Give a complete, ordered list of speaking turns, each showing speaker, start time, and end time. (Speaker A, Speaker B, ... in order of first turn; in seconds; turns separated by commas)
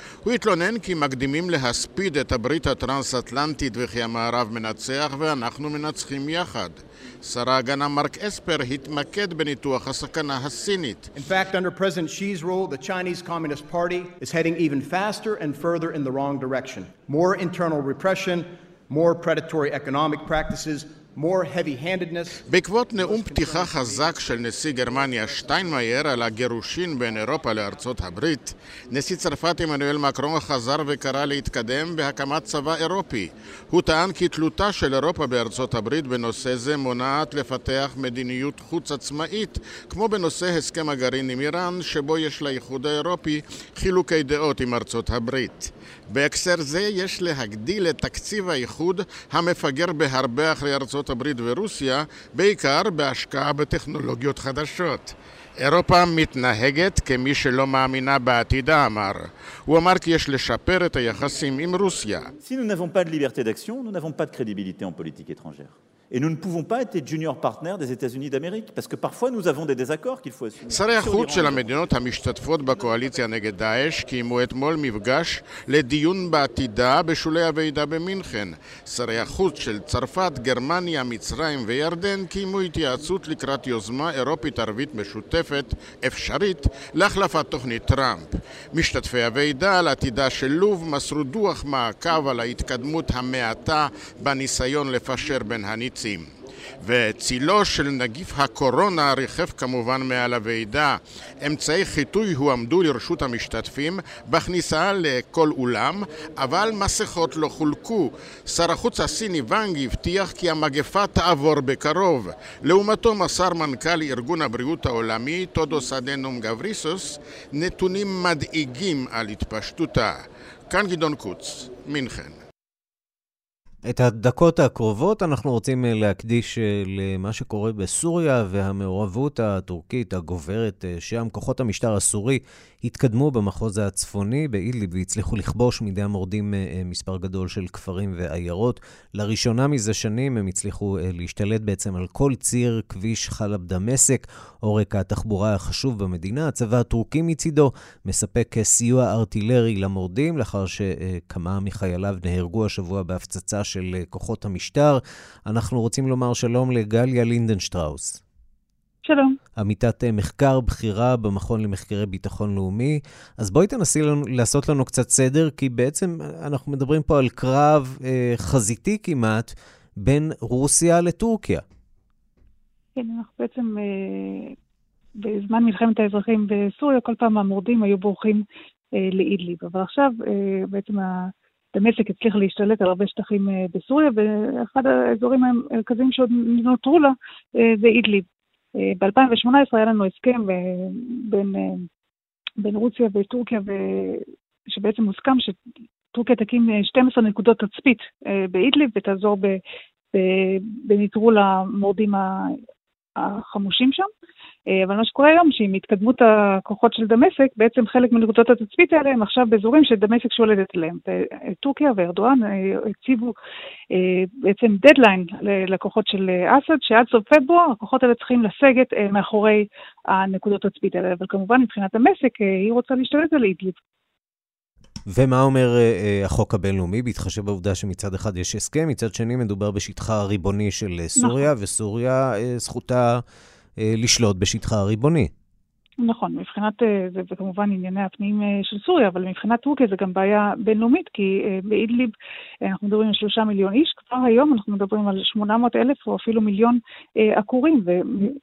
Speaker A: 0.2-11.1, Speaker B: 11.2-22.4, Speaker A: 22.5-62.3, Speaker B: 23.0-24.1, Speaker C: 62.4-71.8, Speaker A: 70.7-122.4, Speaker D: 123.9-158.2, Speaker E: 159.0-159.3, Speaker D: 159.6-171.6, Speaker E: 173.0-174.5, Speaker E: 175.2-178.4, Speaker E: 179.0-187.1, Speaker E: 187.7-188.2, Speaker E: 189.0-191.8, Speaker E: 192.6-194.2, Speaker E: 194.7-195.6, Speaker E: 196.1-199.6, Speaker E: 200.1-202.3, Speaker E: 203.2-204.1, Speaker E: 204.8-213.3, Speaker E: 213.9-223.8, Speaker D: 225.1-233.2, Speaker E: 231.2-231.5, Speaker D: 233.8-235.3, Speaker E: 236.1-242.1, Speaker E: 242.7-246.8, Speaker E: 247.3-248.3